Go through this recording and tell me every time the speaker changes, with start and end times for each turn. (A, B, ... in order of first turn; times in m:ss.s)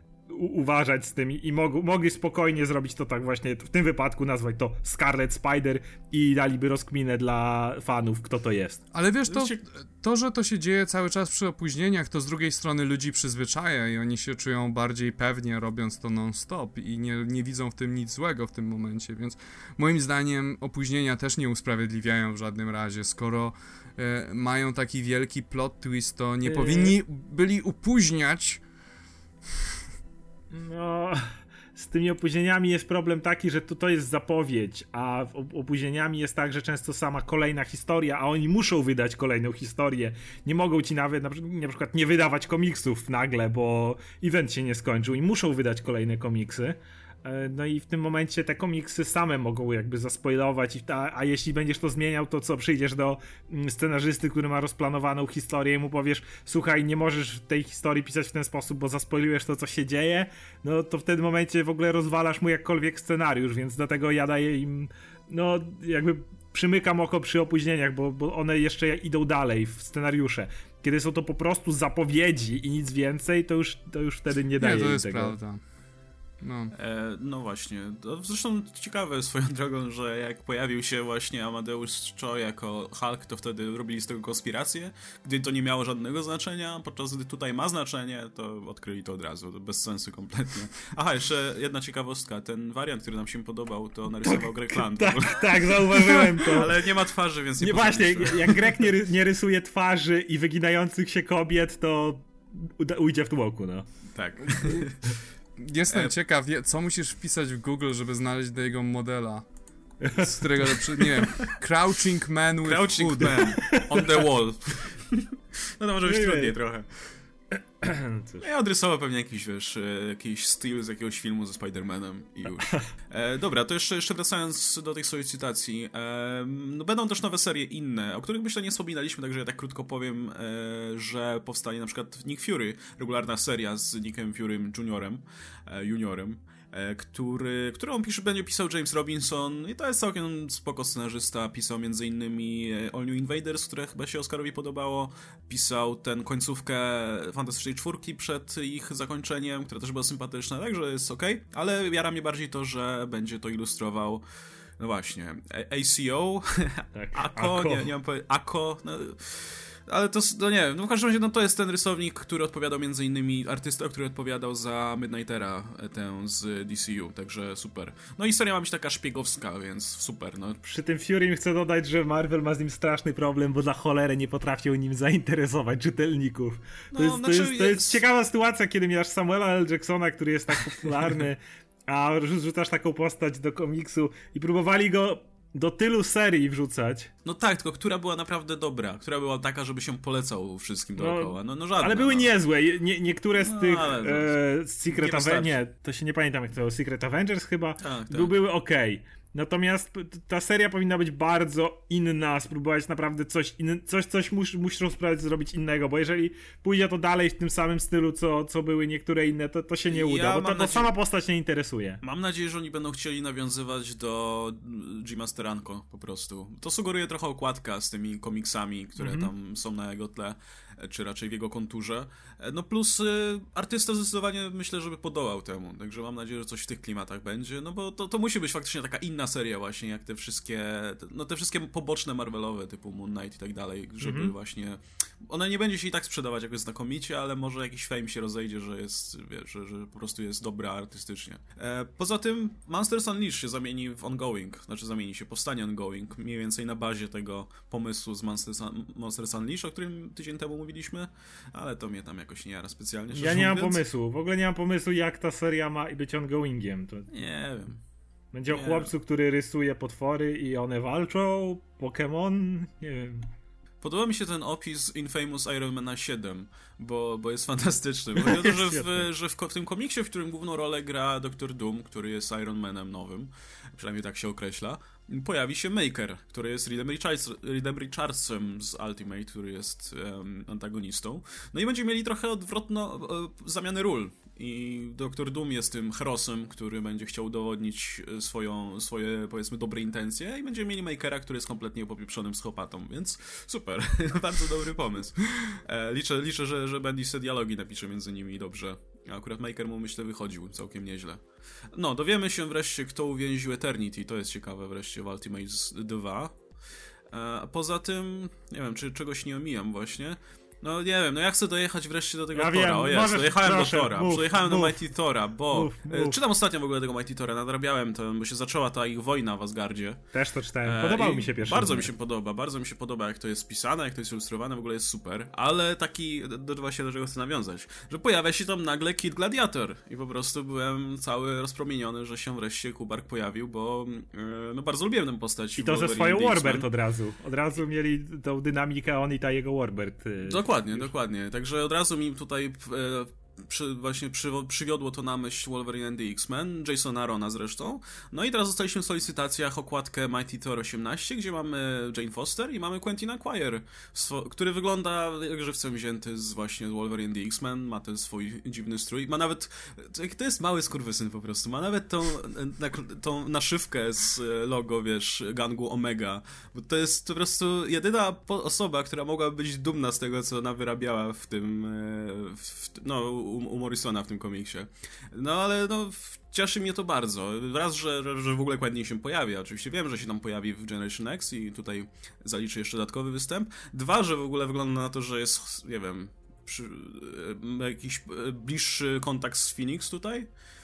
0:00.3-0:08.8 A
0:08.9-0:28.6 B
0:09.3-0:09.6 C
0:26.4-0:26.9 A
0:30.5-1:15.4 A
1:14.6-1:15.6 B
1:16.4-1:16.7 B
1:16.7-1:38.9 C
1:34.2-1:36.7 A
1:37.6-1:43.8 A
1:44.1-1:45.0 C
1:44.6-1:44.9 B
1:45.6-1:49.4 B
1:50.0-1:50.3 A
1:50.1-1:53.6 B
1:51.2-1:51.6 C
1:52.6-1:55.3 C
1:53.2-1:54.1 A
1:55.8-1:56.9 C
1:56.0-1:56.5 A
1:57.5-1:58.4 A
1:58.4-2:34.2 C
2:34.8-2:50.7 C
2:36.9-2:37.9 A
2:50.6-3:07.1 A
2:56.9-2:58.0 C
3:07.2-3:12.3 C
3:11.0-3:32.0 A
3:13.4-3:14.4 C
3:14.9-3:15.5 C
3:17.8-3:18.3 C
3:29.9-3:30.9 C
3:32.0-4:13.8 C
3:39.0-3:39.3 A
3:54.0-3:54.3 A
4:13.1-4:17.1 A
4:17.1-4:17.8 C
4:18.3-4:23.3 A
4:18.5-4:18.9 C
4:23.8-5:01.2 C
4:28.2-4:29.0 A
5:01.7-5:06.4 C
5:07.1-5:20.0 C
5:12.3-5:14.8 A
5:15.5-5:16.2 A
5:20.1-5:21.9 A
5:20.6-5:36.7 C
5:35.6-5:40.9 A
5:40.2-6:30.3 C